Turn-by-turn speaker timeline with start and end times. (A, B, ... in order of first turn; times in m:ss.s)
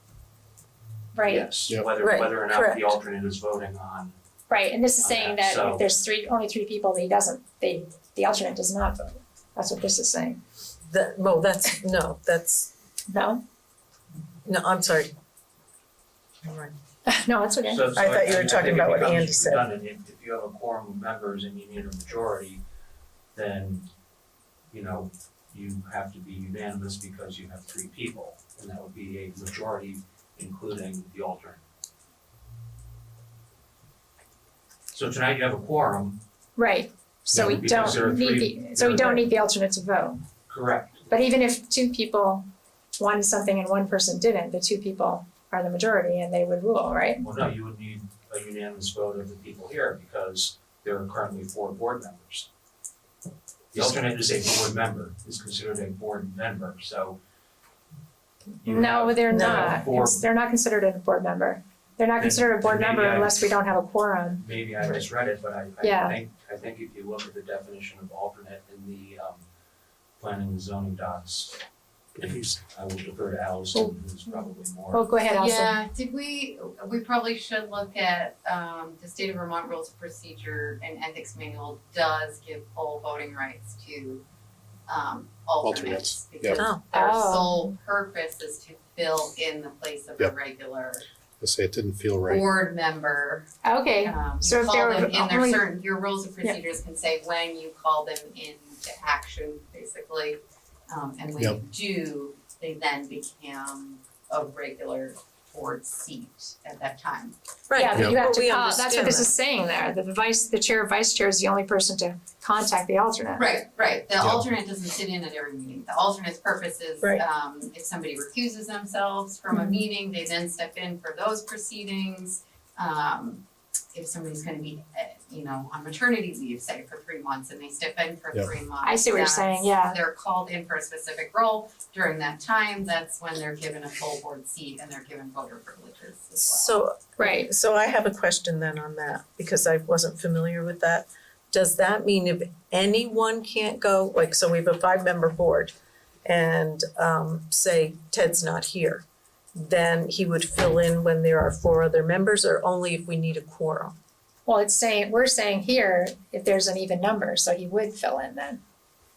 0:01.1-0:01.5 A
0:01.2-0:04.2 B
0:02.0-0:02.9 C
0:04.5-0:10.4 A
0:05.0-0:05.8 B
0:10.8-0:12.7 C
0:13.1-0:13.4 A
0:14.4-0:15.1 C
0:16.4-0:16.7 C
0:17.0-0:17.9 A
0:17.6-0:22.6 B
0:18.0-0:19.6 C
0:23.3-0:23.9 B
0:24.7-0:31.6 B
0:34.9-0:36.2 B
0:36.6-0:40.2 A
0:37.3-0:39.3 B
0:37.3-0:37.6 D
0:40.5-0:41.1 B
0:41.1-0:42.4 A
0:43.0-0:47.2 A
0:47.2-0:52.5 B
0:53.7-0:57.2 B
0:58.6-1:00.2 B
0:58.6-1:04.4 A
0:59.3-0:59.8 C
1:02.2-1:03.4 B
1:04.4-1:09.4 B
1:05.8-1:06.2 A
1:10.2-1:11.6 B
1:12.2-1:15.0 B
1:12.2-1:12.5 D
1:14.9-1:15.7 A
1:15.3-1:24.2 E
1:24.9-1:31.0 E
1:25.6-1:26.7 D
1:26.9-1:27.6 A
1:31.4-1:32.5 D
1:32.2-1:33.5 E
1:33.6-1:35.6 A
1:34.0-1:47.4 E
1:47.7-1:49.3 C
1:47.7-1:53.6 A
1:53.4-2:16.8 E
1:59.5-1:59.8 A
2:08.8-2:10.0 A
2:16.4-2:29.0 C
2:17.2-2:17.5 A
2:29.6-2:33.9 C
2:34.4-2:38.6 A